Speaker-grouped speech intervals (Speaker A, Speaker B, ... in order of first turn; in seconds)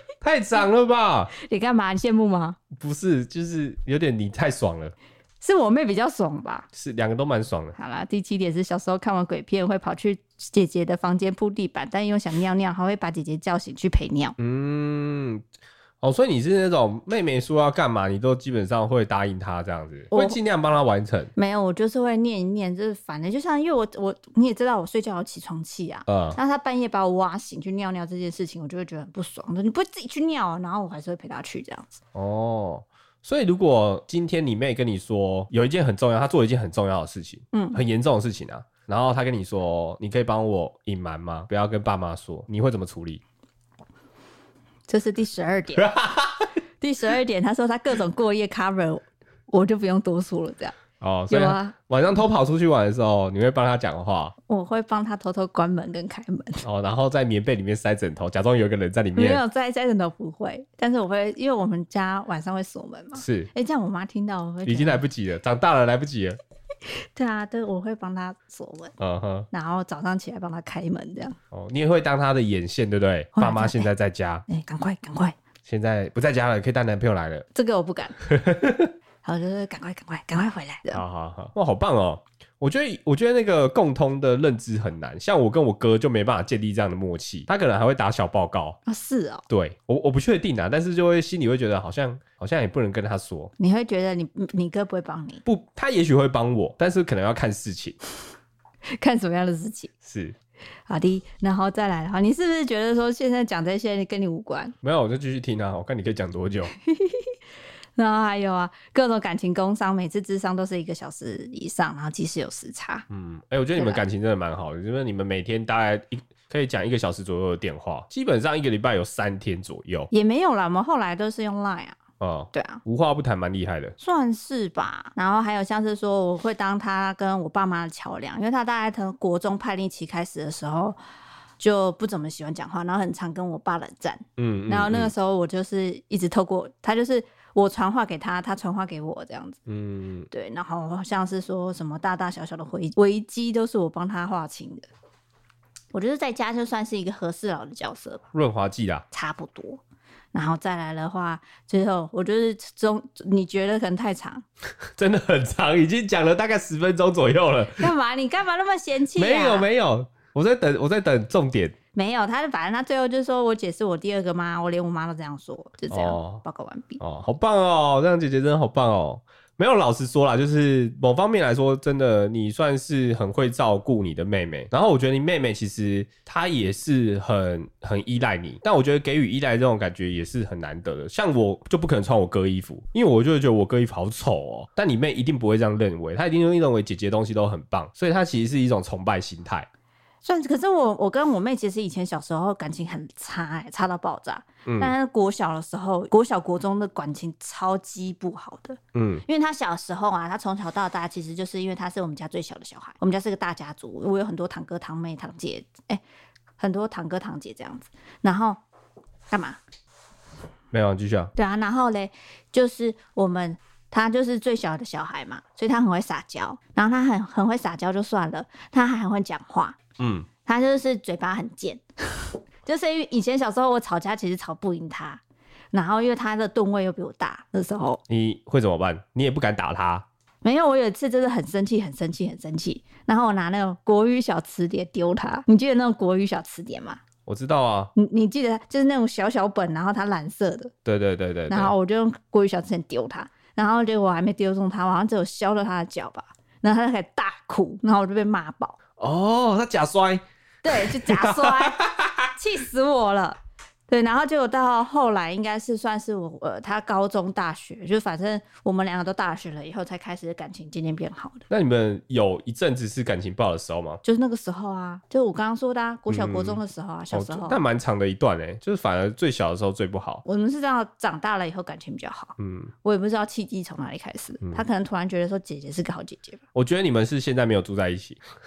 Speaker A: 0.2-1.3, 2.7-4.9, 6.7-7.8, 14.4-15.4, 16.0-21.3, 26.1-26.4, 32.1-43.2, 45.8-46.5, 51.0-54.4, 56.6-59.4, 63.2-63.5, 64.7-66.4, 69.0-69.5, 71.5-74.5, 75.7-77.5, 78.3-78.9, 80.9-88.8, 89.5-93.5, 95.5-98.0, 100.0-100.4, 104.8-106.7, 113.1-120.1, 122.2-124.0, 134.4-135.1, 139.7-140.3, 148.3-149.1, 155.0-157.9, 159.2-161.8, 165.9-166.4, 167.0-189.7, 194.7-194.9, 198.9-199.2, 210.7-211.3, 220.0-220.3, 228.1-230.1, 237.3-237.9, 240.8-241.7, 249.0-252.3, 261.5-264.0, 266.1-266.6, 267.1-270.2, 272.4-272.7, 276.6-278.2
Speaker B: 1.4-2.6, 5.4-6.7, 7.8-14.4, 20.1-20.4, 21.4-32.0, 37.5-37.8, 44.9-45.9, 46.8-50.8, 51.3-51.7, 54.5-56.6, 59.1-65.0, 66.9-69.0, 69.5-71.4, 73.4-73.9, 74.5-75.4, 77.5-78.2, 79.2-81.0, 88.9-89.4, 93.6-95.4, 99.0-99.9, 100.9-104.8, 106.8-107.3, 108.0-113.1, 113.8-114.0, 120.1-122.0, 122.5-122.8, 124.0-131.0, 131.6-139.6, 140.3-144.9, 145.9-148.2, 149.1-149.8, 150.3-154.4, 157.8-159.7, 161.9-167.0, 190.2-206.0, 206.6-208.6, 209.3-209.6, 211.4-219.8, 220.5-225.2, 225.7-228.0, 230.4-237.0, 237.9-240.7, 241.5-248.8, 250.6-251.8, 252.3-261.4, 264.0-267.6, 270.2-276.4